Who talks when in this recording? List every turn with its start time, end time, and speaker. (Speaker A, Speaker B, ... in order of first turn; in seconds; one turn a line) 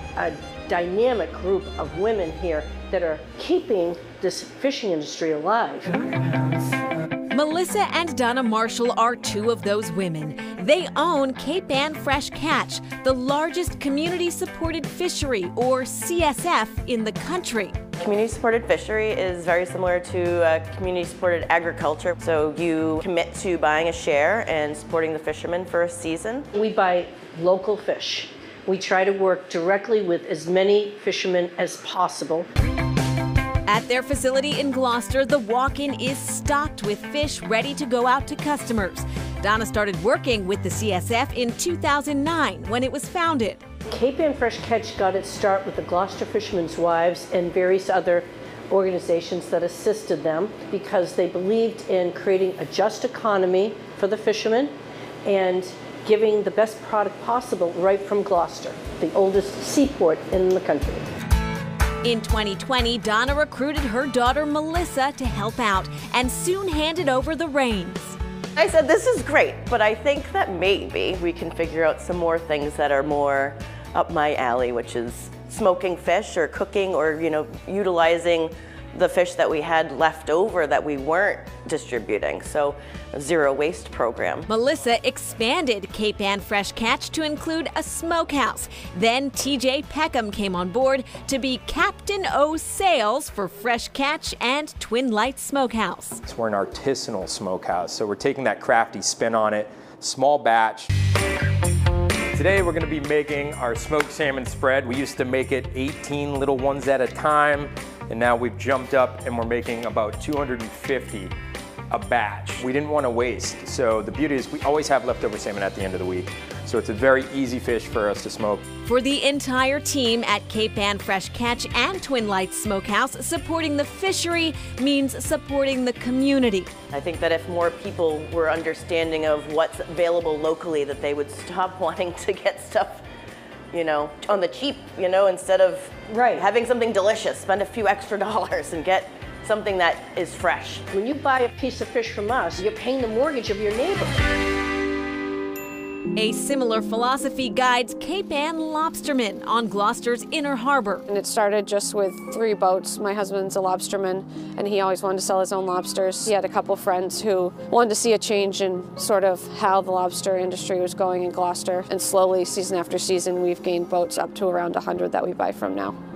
Speaker A: 0.2-5.8
Speaker B: 7.3-17.8
Speaker C: 18.0-26.5
Speaker A: 26.6-32.5
Speaker B: 33.7-43.6
Speaker A: 44.0-48.2
Speaker A: 48.8-54.7
Speaker A: 55.4-61.1
Speaker B: 62.0-68.2
Speaker C: 68.6-84.5
Speaker B: 84.5-96.2
Speaker D: 96.3-100.9
Speaker D: 102.3-111.3
Speaker D: 111.9-118.6
Speaker B: 118.8-126.7
Speaker C: 126.9-133.0
Speaker C: 133.7-140.8
Speaker A: 141.0-144.1
Speaker B: 146.2-151.1
Speaker E: 151.1-166.0